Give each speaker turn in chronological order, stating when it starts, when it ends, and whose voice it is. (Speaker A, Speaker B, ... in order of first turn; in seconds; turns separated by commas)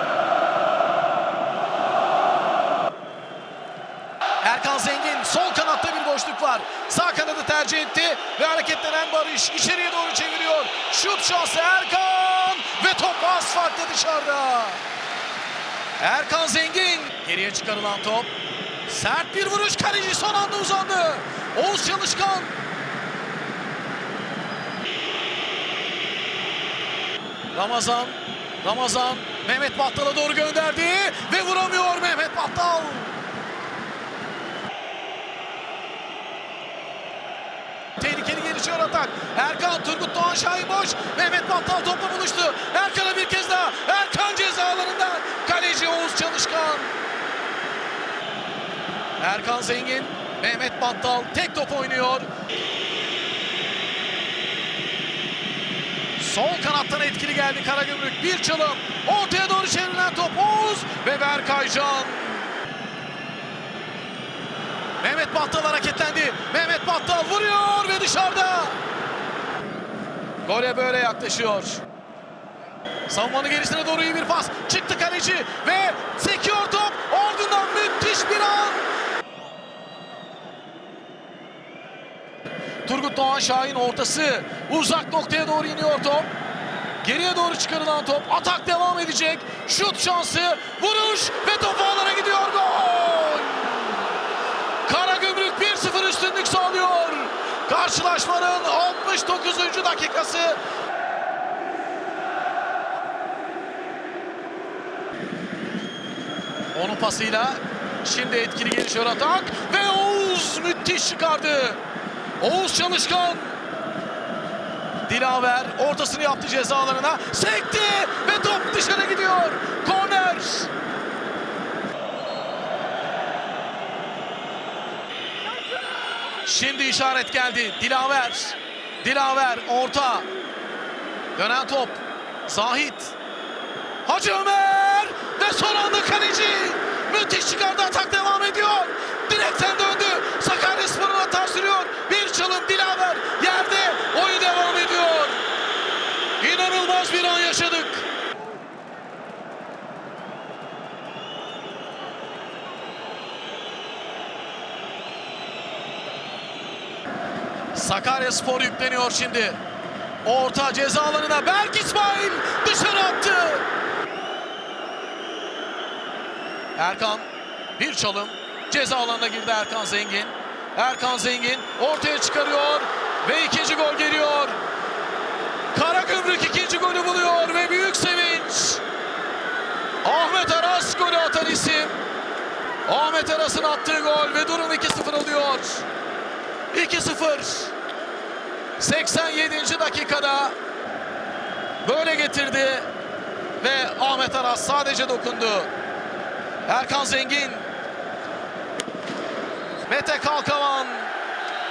Speaker A: 4.4-14.8, Speaker A: 16.0-18.3, Speaker A: 18.9-22.5, Speaker A: 27.5-33.1, Speaker A: 38.0-46.9, Speaker A: 49.2-52.3, Speaker A: 56.2-62.5, Speaker A: 65.0-68.8, Speaker A: 70.5-71.8, Speaker A: 73.1-78.8, Speaker A: 82.8-86.3, Speaker A: 87.0-94.1, Speaker A: 94.8-100.6, Speaker A: 106.7-111.8, Speaker A: 112.4-113.6, Speaker A: 115.0-120.7, Speaker A: 126.4-130.3, Speaker A: 131.3-133.1, Speaker A: 134.0-145.4, Speaker A: 146.4-148.1, Speaker A: 157.7-159.6, Speaker A: 160.2-163.6, Speaker A: 166.8-174.6, Speaker A: 175.7-178.8, Speaker A: 180.0-182.0, Speaker A: 182.8-185.8, Speaker A: 186.7-187.7, Speaker A: 188.8-190.5, Speaker A: 191.8-192.9, Speaker A: 193.6-195.7, Speaker A: 196.7-197.7, Speaker A: 199.8-201.1